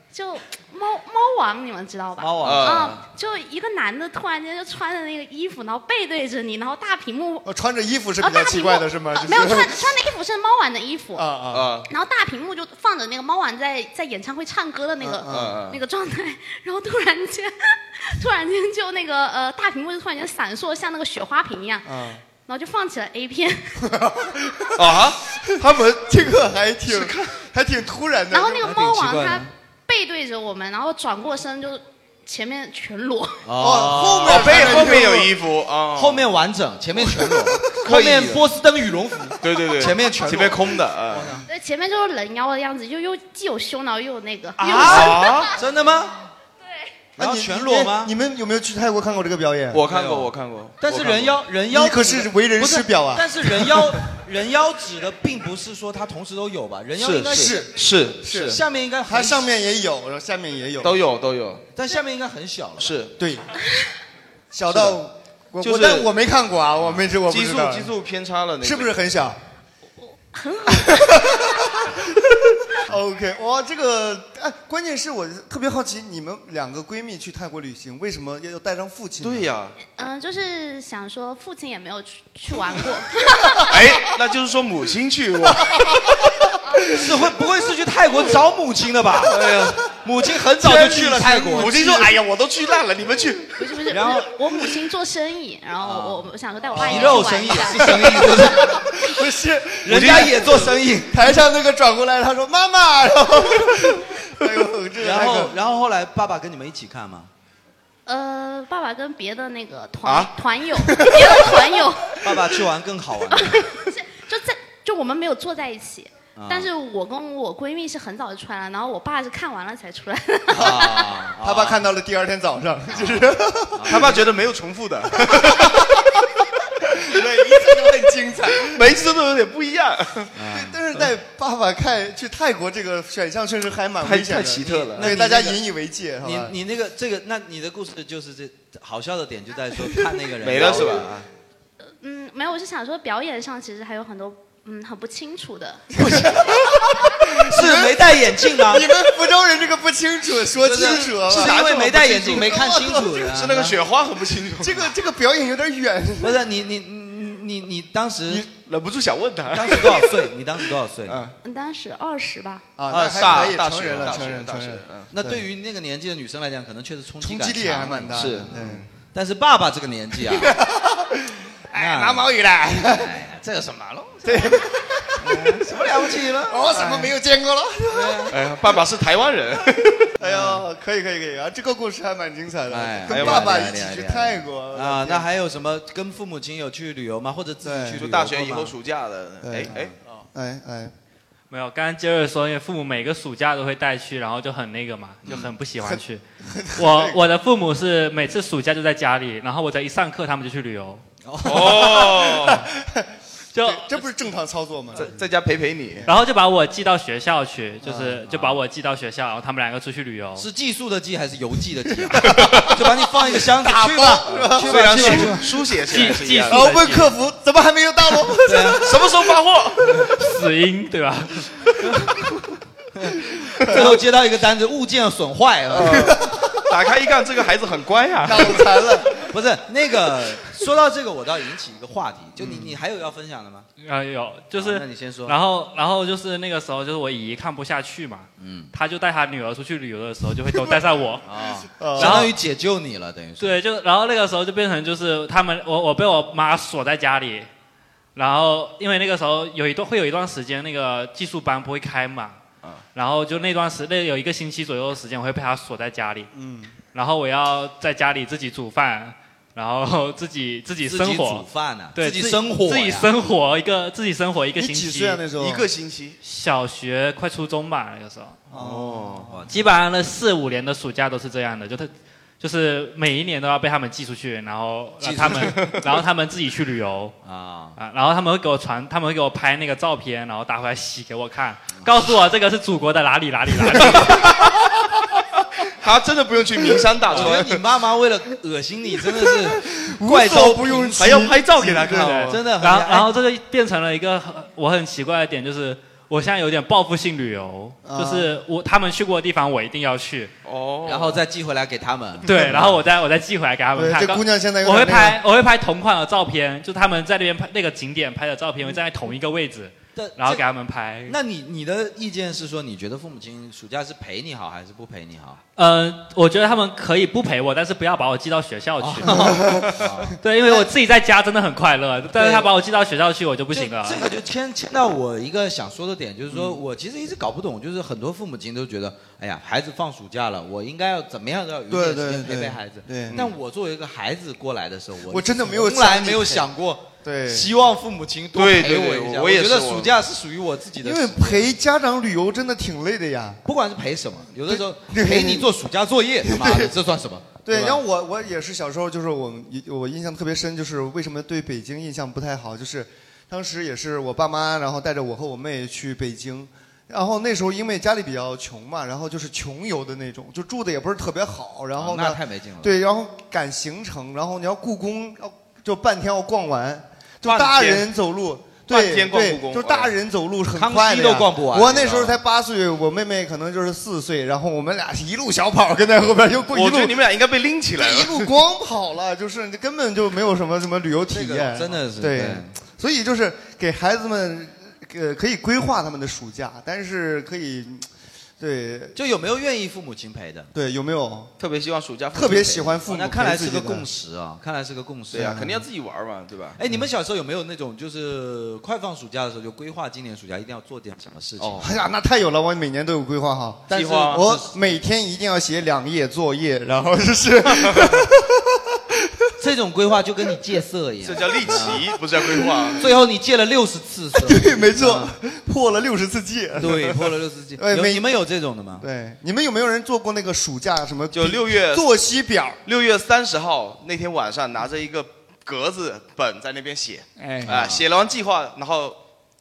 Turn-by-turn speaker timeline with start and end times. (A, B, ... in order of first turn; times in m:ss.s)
0:00.1-0:07.5 A
0:02.2-0:03.0 B
0:02.4-0:03.0 C
0:07.4-0:09.9 D
0:08.2-0:11.3 A
0:11.1-0:11.7 D
0:11.5-0:11.9 C
0:11.9-0:23.9 A
0:15.1-0:15.6 D
0:15.2-0:15.8 C
0:21.8-0:22.2 D
0:23.8-0:28.7 D
0:24.8-0:26.0 C
0:26.9-0:27.4 C
0:28.3-0:33.4 A
0:28.6-0:29.5 B
0:33.4-0:35.1 B
0:33.6-0:35.3 D
0:34.2-0:36.3 C
0:36.0-0:41.5 B
0:37.2-0:37.6 D
0:37.6-0:38.5 C
0:39.4-0:41.3 C
0:41.5-0:45.5 A
0:44.6-0:46.2 B
0:44.8-0:45.5 C
0:47.2-0:48.1 B
0:47.2-0:49.8 D
0:49.7-0:51.4 C
0:49.9-0:50.3 B
0:50.8-0:57.7 B
0:51.7-0:54.0 D
0:57.0-0:58.6 C
0:57.3-1:01.0 D
0:58.3-0:59.5 B
1:00.8-1:01.7 C
1:01.8-1:02.9 B
1:02.8-1:03.2 C
1:03.2-1:03.5 D
1:04.5-1:07.9 D
1:04.7-1:05.0 C
1:05.6-1:06.1 C
1:07.3-1:08.9 C
1:08.6-1:09.4 D
1:10.0-1:11.4 A
1:10.7-1:19.5 D
1:19.2-1:19.8 C
1:20.0-1:23.6 A
1:23.7-1:25.9 C
1:26.9-1:29.4 B
1:29.3-1:29.8 C
1:30.0-1:31.7 B
1:30.4-1:32.2 D
1:31.6-1:33.7 C
1:33.6-1:37.9 A
1:33.9-1:34.3 B
1:35.8-1:38.7 B
1:37.8-1:45.6 D
1:39.8-1:41.2 B
1:39.9-1:40.7 C
1:45.0-1:47.3 B
1:48.1-1:52.2 A
1:50.0-1:50.3 C
1:50.9-1:51.4 D
1:52.2-1:53.6 B
1:53.3-2:01.1 A
1:56.4-1:56.7 B
2:00.5-2:01.8 B
2:00.6-2:04.2 D
2:02.9-2:04.2 B
2:03.9-2:06.1 C
2:05.2-2:05.9 D
2:06.9-2:08.8 D
2:08.5-2:10.3 C
2:10.3-2:10.8 B
2:10.4-2:16.6 D
2:14.0-2:15.2 C
2:15.0-2:15.6 B
2:16.2-2:21.1 B
2:20.4-2:21.3 C
2:22.0-2:25.9 A
2:26.0-2:33.3 D
2:26.0-2:26.5 B
2:27.4-2:28.9 B
2:30.6-2:33.8 B
2:31.3-2:32.4 C
2:33.3-2:34.9 C
2:34.6-2:36.4 D
2:36.2-2:38.4 B
2:38.6-2:40.2 C
2:39.5-2:41.2 B
2:41.1-2:41.4 C
2:41.4-2:42.7 A
2:42.8-2:45.4 D
2:42.9-2:45.1 C
2:45.1-2:48.5 B
2:47.2-2:48.9 D
2:48.1-2:48.9 C
2:49.1-2:50.6 B
2:50.3-2:53.2 D
2:51.7-2:52.4 B
2:52.9-2:54.7 B
2:54.2-2:55.8 D
2:55.2-2:57.1 B
2:56.4-2:58.4 D
2:57.9-2:58.3 B
2:58.3-3:00.1 C
3:00.2-3:05.3 D
3:00.2-3:00.6 B
3:02.7-3:08.7 B
3:03.1-3:03.6 C
3:07.6-3:08.1 D
3:08.0-3:09.9 C
3:09.4-3:09.7 D
3:09.7-3:10.0 B
3:10.3-3:10.9 D
3:11.5-3:16.2 E
3:15.8-3:17.2 D
3:16.8-3:21.0 E
3:21.2-3:22.1 B
3:21.4-3:22.7 C
3:21.6-3:25.2 D
3:23.5-3:24.0 E
3:24.9-3:26.1 C
3:26.1-3:30.5 E
3:27.8-3:28.4 D
3:30.4-3:35.5 B
3:32.1-3:35.5 D
3:34.3-3:36.7 C
3:35.9-3:37.1 E
3:36.5-3:39.3 D
3:38.5-3:38.8 B
3:38.8-3:40.1 C
3:40.0-3:42.2 E
3:43.0-3:46.1 B
3:43.6-3:43.9 D
3:45.8-3:49.0 C
3:45.8-3:46.5 D
3:48.2-3:49.1 D
3:49.3-3:53.7 B
3:52.4-3:52.8 D
3:53.8-4:01.3 E
3:54.5-3:55.4 B
3:58.4-3:58.7 B
4:01.2-4:03.6 B
4:01.8-4:02.3 D
4:02.0-4:02.4 E
4:03.4-4:07.5 E
4:08.2-4:12.4 E
4:13.0-4:16.3 E
4:16.3-4:16.7 D
4:16.9-4:25.2 E
4:20.8-4:23.1 B
4:24.6-4:25.7 D
4:25.4-4:26.2 C
4:26.2-4:28.4 E
4:28.5-4:29.4 D
4:28.6-4:29.7 B
4:29.5-4:37.2 E
4:35.0-4:35.6 B
4:37.2-4:37.8 B
4:37.8-4:44.4 E
4:44.2-4:44.6 C
4:45.8-4:47.6 C
4:47.1-4:51.2 B
4:49.1-4:52.3 D
4:51.0-4:52.4 C
4:51.9-5:00.3 E
4:52.3-4:53.1 B
4:57.8-4:58.3 D
5:00.4-5:01.2 C
5:00.9-5:02.8 B
5:02.2-5:11.2 E
5:02.3-5:02.6 D
5:03.8-5:05.2 D
5:10.0-5:10.4 B
5:11.1-5:15.4 B
5:15.6-5:24.1 E
5:18.8-5:20.2 B
5:19.1-5:19.8 D
5:22.2-5:22.5 B
5:23.5-5:41.5 B
5:31.7-5:33.2 D
5:35.1-5:36.5 D
5:37.0-5:37.5 D
5:38.4-5:39.9 C
5:40.8-5:43.4 D
5:43.4-5:47.8 B
5:44.5-5:45.5 D
5:46.2-5:46.7 D
5:47.4-6:17.0 D
6:01.8-6:02.8 B
6:07.2-6:07.9 C
6:08.7-6:09.9 C
6:10.6-6:12.2 B
6:16.5-6:18.3 C
6:17.8-6:27.9 D
6:21.1-6:22.5 B
6:28.4-6:29.0 D
6:29.0-6:30.5 B
6:30.5-6:31.3 D
6:31.4-6:32.8 C
6:32.1-6:33.9 D
6:32.9-6:35.5 B
6:35.1-6:36.6 C
6:35.1-6:35.6 D
6:36.6-6:41.7 B
6:41.6-6:49.1 D
6:43.7-6:44.3 C
6:43.7-6:44.5 B
6:49.4-6:51.8 B
6:51.0-6:52.8 C
6:52.3-6:52.7 D
6:52.8-6:55.1 B
6:54.2-6:58.2 D
6:56.6-6:58.8 B
6:58.8-7:02.6 D
7:01.1-7:02.0 C
7:02.6-7:09.0 C
7:07.4-7:07.8 B